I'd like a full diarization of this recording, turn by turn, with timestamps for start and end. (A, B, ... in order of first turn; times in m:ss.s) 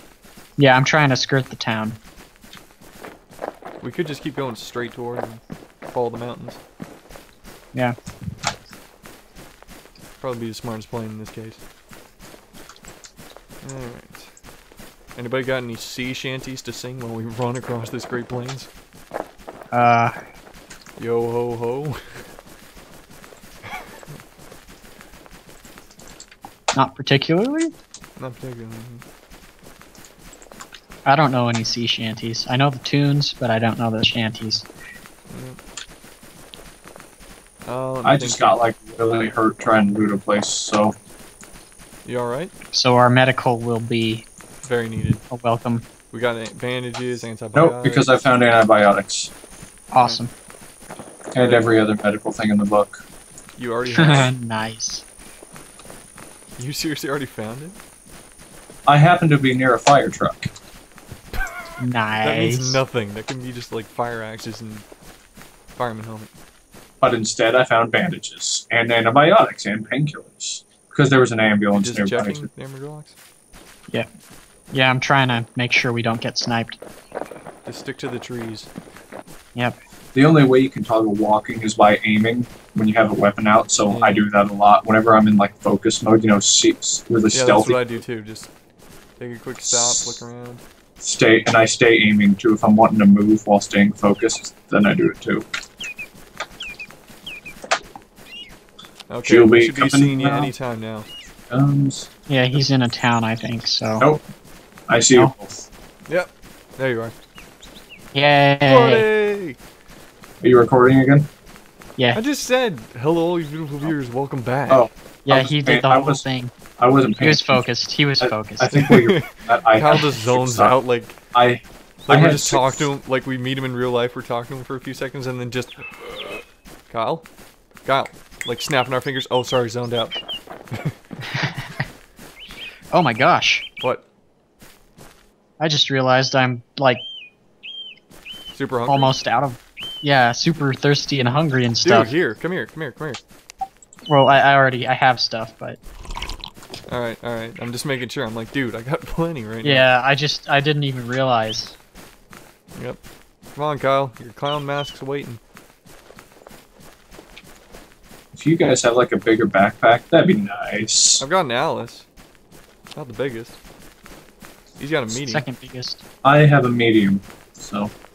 0:00.6-0:02.0 A
0:03.8-0:06.6 B
0:10.2-0:11.6 B
0:13.6-0:14.3 B
0:15.2-0:18.7 B
0:19.7-0:20.1 A
0:21.0-0:22.3 B
0:26.7-0:27.7 A
0:28.2-0:29.0 B
0:31.0-0:34.7 A
0:35.3-0:35.6 B
0:37.6-0:38.6 B
0:38.0-0:40.9 C
0:42.0-0:42.5 B
0:42.7-0:44.2 A
0:44.6-0:45.2 B
0:45.3-0:45.9 A
0:46.1-0:48.2 B
0:47.5-0:49.3 C
0:49.9-0:50.3 A
0:51.3-0:53.0 C
0:51.4-0:51.8 B
0:53.6-0:54.3 B
0:53.8-0:55.0 A
0:56.6-0:57.8 B
0:58.8-1:00.5 C
1:01.3-1:04.8 B
1:01.8-1:02.8 A
1:05.8-1:06.3 B
1:07.0-1:12.5 C
1:11.7-1:13.2 B
1:14.7-1:16.8 A
1:17.6-1:18.7 B
1:20.1-1:28.0 C
1:23.9-1:24.3 B
1:27.3-1:28.5 B
1:29.2-1:30.6 B
1:29.6-1:30.2 C
1:31.0-1:35.4 C
1:39.1-1:41.1 B
1:39.2-1:40.5 C
1:41.5-1:42.1 C
1:42.3-1:44.1 A
1:44.9-1:45.7 C
1:46.1-1:47.1 B
1:48.1-1:49.0 A
1:48.7-1:49.6 B
1:50.4-1:51.3 C
1:52.1-1:54.9 B
1:54.7-1:56.2 C
1:55.2-1:56.5 A
1:56.8-1:57.6 C
1:57.2-1:58.8 A
1:58.2-2:00.8 C
1:58.7-2:01.2 B
2:01.3-2:02.9 C
2:02.1-2:05.9 B
2:06.9-2:07.2 B
2:07.8-2:10.2 B
2:11.3-2:11.8 A
2:12.9-2:13.6 A
2:13.8-2:14.0 B
2:15.6-2:17.0 A
2:18.5-2:19.1 B
2:18.9-2:22.1 A
2:21.8-2:23.2 B
2:24.0-2:25.8 A
2:26.9-2:29.8 B
2:29.6-2:31.7 A
2:32.7-2:33.0 B
2:33.5-2:35.4 B
2:38.3-2:41.2 C
2:41.2-2:42.1 B
2:42.9-2:43.6 B
2:44.8-2:45.4 B
2:45.1-2:46.0 A
2:46.2-2:47.9 C